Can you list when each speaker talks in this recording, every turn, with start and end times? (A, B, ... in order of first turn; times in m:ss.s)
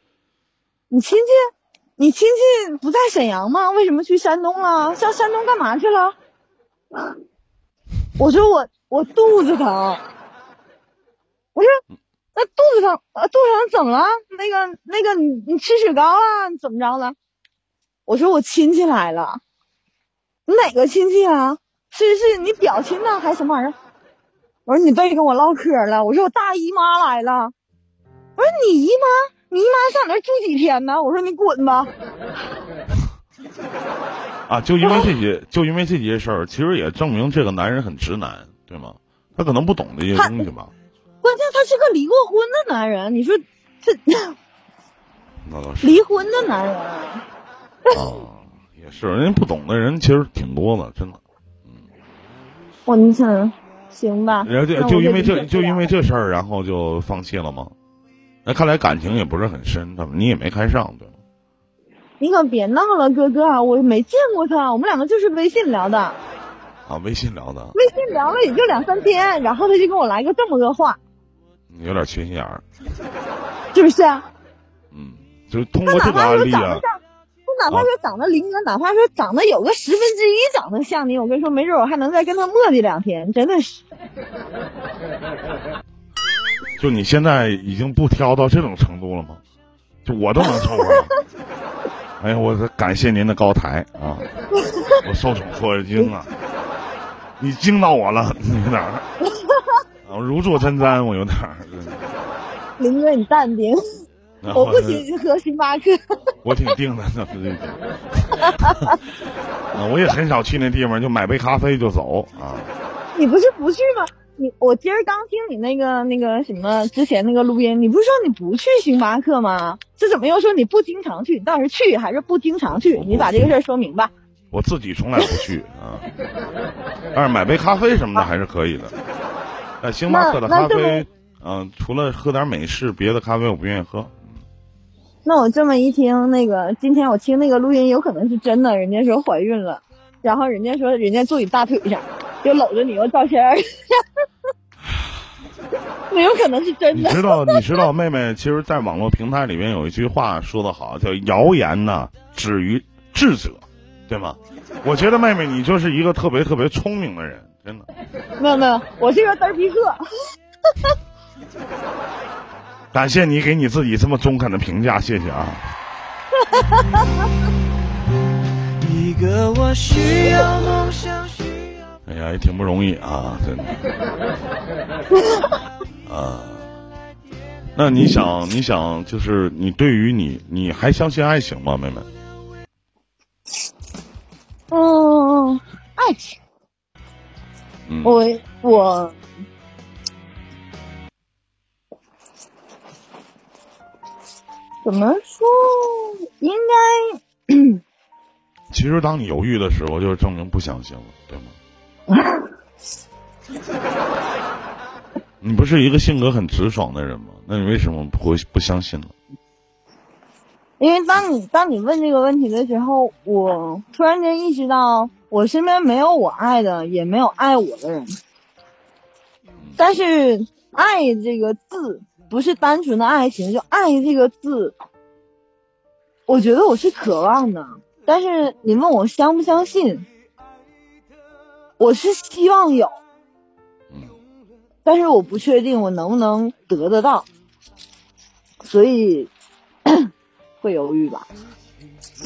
0:00.9-0:01.4 A
0:02.0-0:06.1 A
0:08.2-0:10.0 A
0:11.5-0:11.8 A
0:12.3-0:17.2 A
0:18.1-0:19.4 A
0:20.5-0:23.8 A
0:24.6-0:27.5 A
0:28.4-0:31.9 A
0:34.5-0:40.7 B
0:34.8-0:35.1 A
0:41.2-0:44.3 A
0:45.4-0:46.0 B
0:45.8-0:47.2 A
0:47.9-0:51.2 B
0:52.8-0:55.9 A
0:54.4-0:57.7 B
0:58.4-1:01.1 B
1:02.2-1:06.2 A
1:06.9-1:07.8 B
1:07.7-1:11.0 A
1:11.7-1:12.6 B
1:13.7-1:14.2 A
1:14.9-1:16.8 B
1:15.8-1:17.0 A
1:17.5-1:23.8 A
1:26.8-1:29.4 B
1:30.0-1:31.1 B
1:30.4-1:31.0 A
1:32.2-1:34.3 B
1:34.5-1:35.0 A
1:35.0-1:36.3 B
1:37.4-1:39.0 B
1:39.3-1:39.8 A
1:40.0-1:42.2 B
1:42.8-1:43.8 A
1:44.4-1:45.0 B
1:44.5-1:46.0 A
1:46.4-1:49.0 B
1:48.6-1:48.9 A
1:49.7-1:52.7 B
1:53.1-2:04.1 A
2:02.7-2:03.5 B
2:04.5-2:06.0 B
2:07.1-2:08.9 B
2:09.8-2:14.2 B
2:10.1-2:11.0 A
2:15.2-2:24.0 A
2:26.1-2:27.8 A
2:26.9-2:37.9 B
2:38.4-2:40.0 A
2:42.9-2:45.6 B
2:46.4-2:47.3 A
2:48.8-2:51.4 C
2:52.1-2:53.8 B
2:56.0-2:56.7 B
2:57.8-3:02.1 B
3:04.7-3:06.4 A
3:07.9-3:08.2 B
3:08.0-3:09.2 A
3:14.8-3:17.8 A
3:18.7-3:21.6 B
3:22.1-3:22.5 A
3:25.4-3:29.1 B
3:30.8-3:38.1 A
3:39.8-3:44.8 A
3:46.3-3:50.0 A
3:51.8-3:52.9 A
3:54.8-3:57.2 A
3:58.6-3:59.3 A
4:00.6-4:01.2 A